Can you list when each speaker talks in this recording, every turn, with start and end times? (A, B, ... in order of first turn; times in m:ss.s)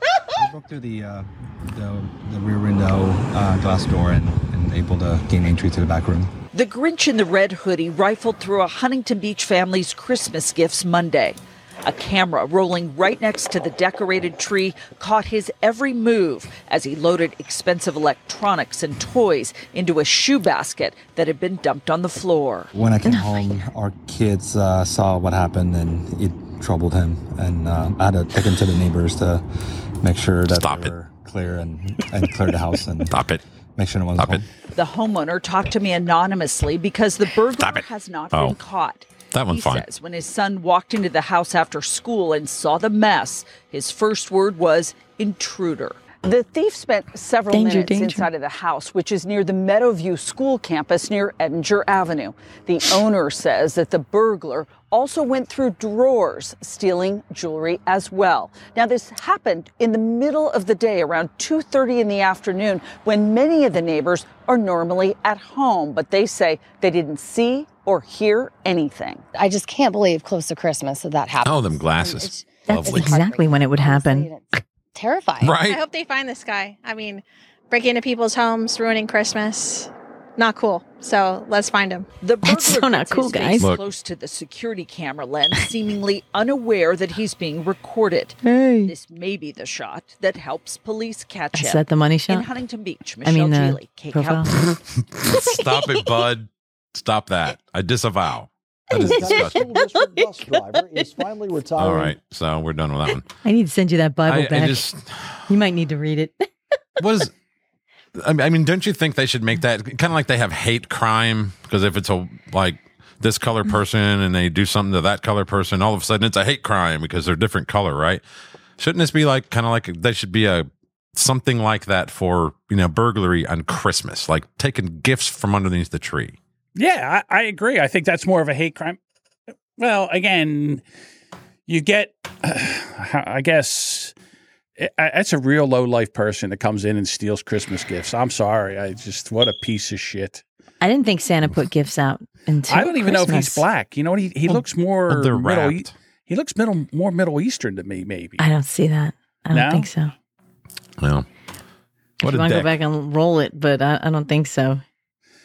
0:00.3-0:06.3 A
0:06.5-0:22.7 B
0:22.7-0:29.4 A
0:23.0-0:23.3 C
0:30.0-0:33.1 A
0:30.5-0:30.9 D
0:33.1-0:33.4 D
0:33.8-0:34.4 A
0:34.2-0:34.4 D
0:34.7-1:09.2 B
0:37.6-0:38.6 D
0:39.3-0:39.8 D
0:47.5-0:48.3 C
1:09.3-1:15.6 E
1:11.4-1:13.2 D
1:12.6-1:14.3 C
1:15.4-1:15.8 D
1:15.6-1:22.0 F
1:22.2-1:34.7 B
1:22.4-1:23.7 C
1:28.4-1:28.9 C
1:31.5-1:32.5 C
1:33.2-1:34.7 C
1:35.2-1:39.6 D
1:35.3-1:35.6 C
1:38.9-1:40.4 C
1:38.9-1:42.2 G
1:41.8-1:43.2 D
1:43.4-1:44.9 C
1:44.3-1:45.4 D
1:45.5-1:46.5 C
1:47.0-1:47.3 D
1:48.1-1:58.2 D
1:58.8-2:06.4 D
2:06.7-2:09.0 H
2:09.8-2:10.8 H
2:11.7-2:14.1 H
2:14.8-2:20.4 H
2:20.8-2:23.6 C
2:22.7-2:28.4 H
2:24.5-2:25.9 D
2:28.4-2:30.1 C
2:29.5-2:29.9 H
2:31.0-2:31.3 D
2:32.2-2:32.7 D
2:32.2-2:34.8 C